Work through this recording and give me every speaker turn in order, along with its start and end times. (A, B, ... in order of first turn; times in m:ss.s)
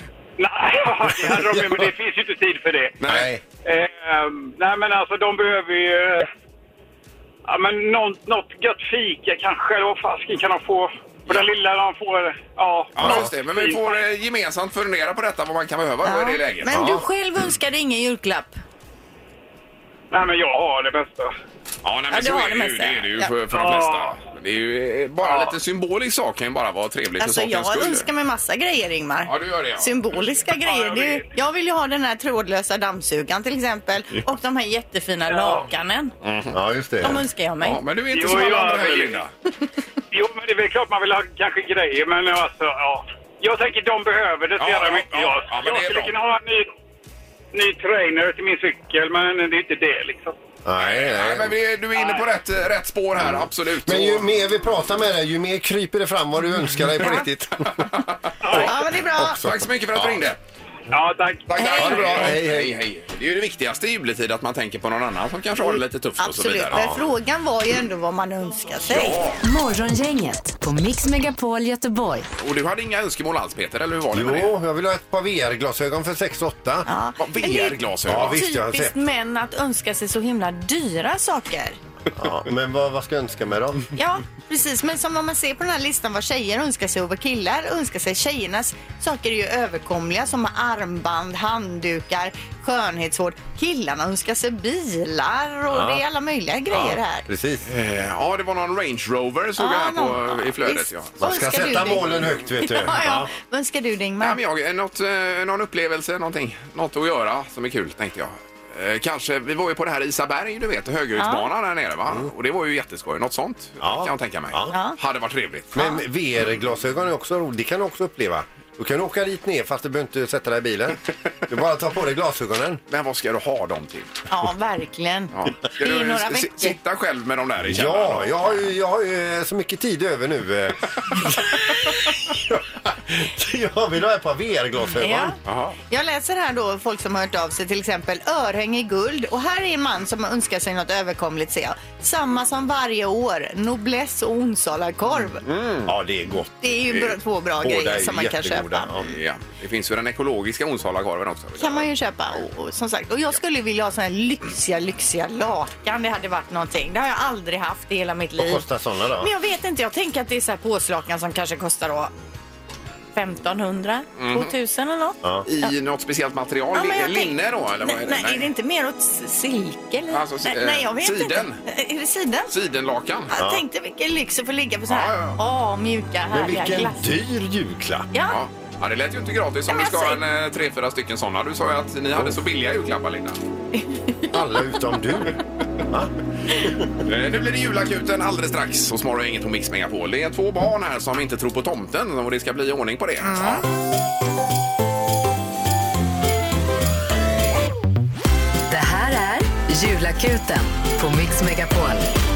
0:00.4-0:03.0 A
0:03.0-0:03.3 B
0:03.0-0:03.4 C
0:03.6-0:06.3 A
0:07.4-0:14.0 A
0:13.0-0:16.7 B
0:13.0-0:13.3 C
0:16.0-0:18.6 D
0:16.7-0:17.0 C
0:20.1-0:21.3 A
0:21.8-0:28.1 B
0:22.1-0:23.3 D
0:23.5-0:24.2 A
0:25.2-0:25.6 A
0:27.2-0:36.1 D
0:29.2-0:29.9 B
0:30.6-0:31.3 A
0:35.3-0:35.7 A
0:36.2-0:36.6 B
0:36.5-0:37.2 C
0:37.0-0:37.8 D
0:37.6-0:39.3 B
0:38.1-0:39.2 A
0:40.1-0:46.7 A
0:44.6-0:46.1 B
0:47.5-0:50.4 A
0:50.6-0:51.6 C
0:50.8-0:54.3 B
0:51.9-0:52.2 A
0:53.2-0:57.8 C
0:57.6-0:58.7 B
0:58.4-0:58.7 A
0:58.5-0:59.4 D
0:59.1-1:00.2 C
0:59.2-1:00.4 B
1:00.9-1:02.3 A
1:01.5-1:07.0 B
1:01.8-1:02.8 C
1:05.6-1:09.2 D
1:08.9-1:09.4 B
1:09.4-1:12.3 E
1:12.4-1:14.5 B
1:14.1-1:16.9 C
1:16.9-1:21.8 D
1:17.2-1:18.4 B
1:18.0-1:18.9 C
1:22.1-1:23.8 C
1:23.9-1:37.2 D
1:35.7-1:36.0 C
1:36.7-1:37.6 C
1:37.6-1:41.1 B
1:39.6-1:44.4 D
1:41.2-1:43.3 C
1:44.2-1:55.8 B
1:51.2-1:51.5 D
1:53.8-1:54.7 C
1:54.7-1:55.0 D
1:55.7-2:02.8 C
2:02.9-2:04.1 B
2:04.3-2:06.8 D
2:05.3-2:08.6 B
2:07.6-2:11.6 C
2:12.2-2:15.3 C
2:15.0-2:15.4 D
2:15.4-2:15.8 B
2:15.9-2:25.4 D
2:25.4-2:25.9 B
2:25.8-2:26.6 C
2:26.6-2:28.9 D
2:27.6-2:29.1 C
2:29.0-2:31.9 B
2:31.6-2:38.6 D
2:38.4-2:39.3 C
2:39.2-2:42.1 D
2:43.1-2:45.7 D
2:44.2-2:44.5 B
2:45.5-2:48.5 B
2:46.7-2:52.5 D
2:50.1-2:51.6 B
2:52.5-2:53.3 B
2:53.3-2:57.1 D
2:53.3-2:53.6 C
2:54.9-2:55.4 B
2:56.3-2:58.1 C
2:58.1-2:58.4 D
2:58.3-3:03.4 B
2:59.7-3:00.2 D
3:03.7-3:04.3 D
3:04.3-3:05.4 C
3:07.0-3:13.6 B
3:13.2-3:13.6 D
3:18.7-3:22.1 E